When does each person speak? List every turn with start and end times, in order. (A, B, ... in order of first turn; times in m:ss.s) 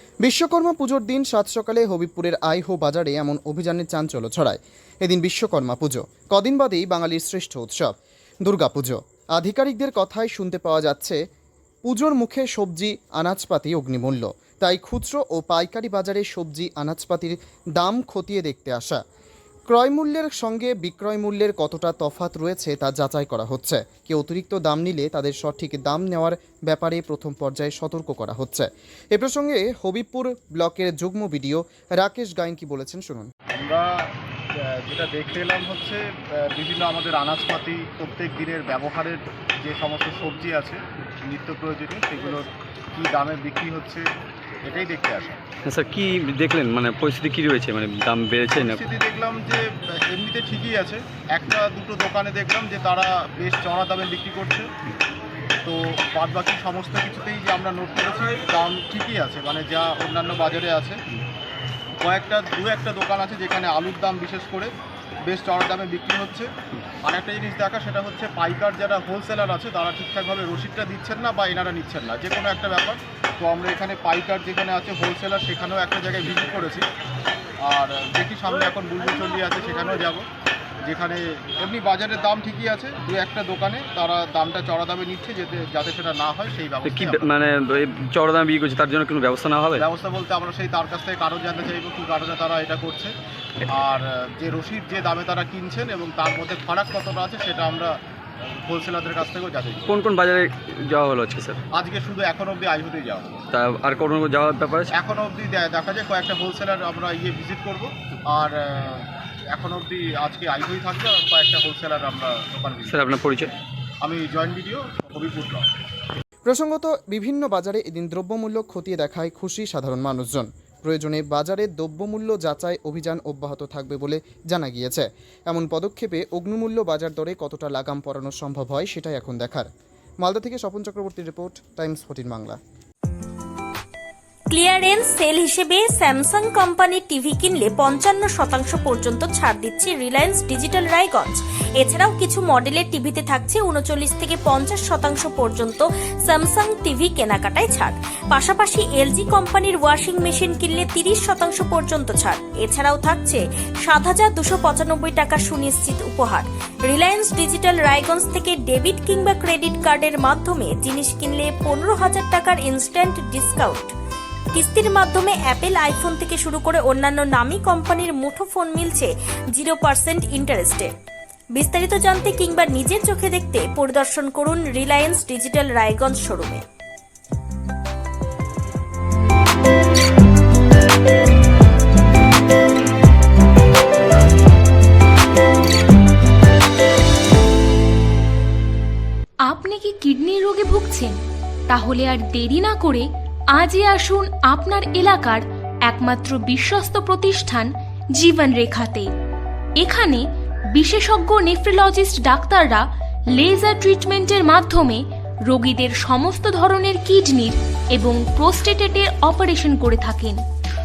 0:00.2-0:07.9 A
0:08.4-0:11.2 A
0:11.8-0:19.0 A
0:19.7-0:33.3 A
0:33.6-0:44.1 B
0:44.6-0:45.4 B
0:45.7-0:48.8 C
0:48.5-0:54.7 B
0:55.6-1:01.0 B
1:02.0-1:04.7 B
1:05.2-1:06.5 B
1:07.0-1:16.8 B
1:17.6-1:20.2 B
1:20.8-1:27.4 B
1:26.8-1:29.8 C
1:29.7-1:33.1 B
1:33.7-1:39.9 B
1:39.9-1:41.6 C
1:41.7-1:43.4 B
1:43.5-1:44.9 C
1:44.9-1:53.0 B
1:52.9-1:53.5 C
1:54.0-1:55.7 B
1:56.4-2:09.7 A
2:10.2-2:12.6 A
2:14.5-2:43.9 D
2:44.5-2:50.9 D
2:51.5-2:56.6 D
3:09.4-3:19.1 E
3:19.8-3:30.4 E